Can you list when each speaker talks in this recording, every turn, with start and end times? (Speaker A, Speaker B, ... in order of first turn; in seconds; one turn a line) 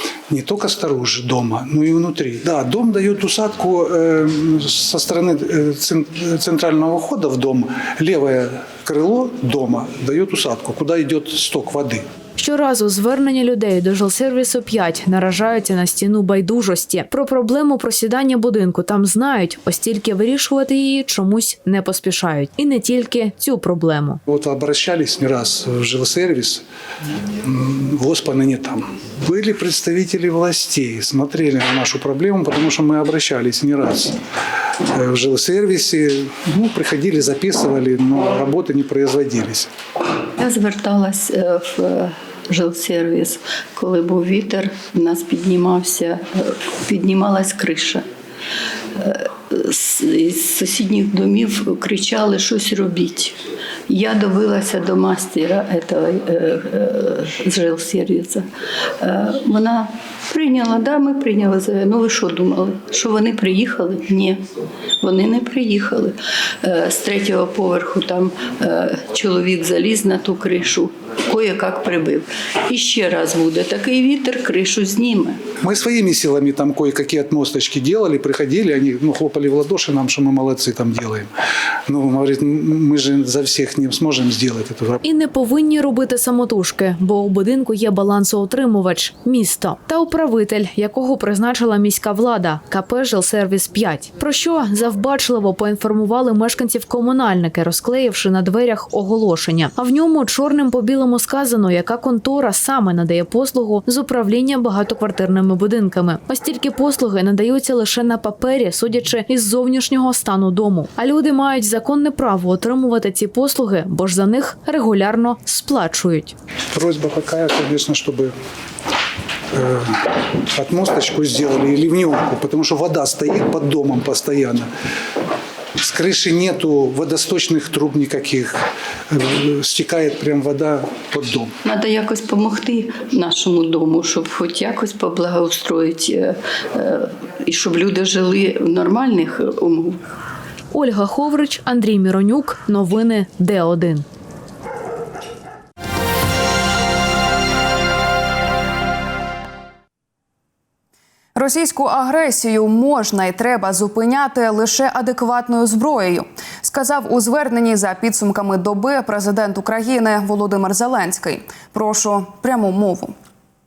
Speaker A: 0.3-12.1
Speaker B: 12.4-24.2
Speaker A: 24.3-26.6
Speaker A: 27.4-34.2
Speaker A: 34.9-39.7
Speaker C: 40.4-48.1
Speaker C: 49.0-53.4
Speaker C: 53.9-58.5
Speaker C: 59.0-64.5
Speaker C: 65.0-75.4
Speaker A: 75.6-81.3
Speaker A: 81.9-85.0
Speaker B: 85.0-116.3
Speaker A: 116.7-118.3
Speaker A: 119.5-124.7
Speaker A: 125.8-128.6
Speaker A: 129.1-131.5
Speaker C: 131.6-140.0
Speaker B: 140.7-144.1
Speaker D: 151.3-163.1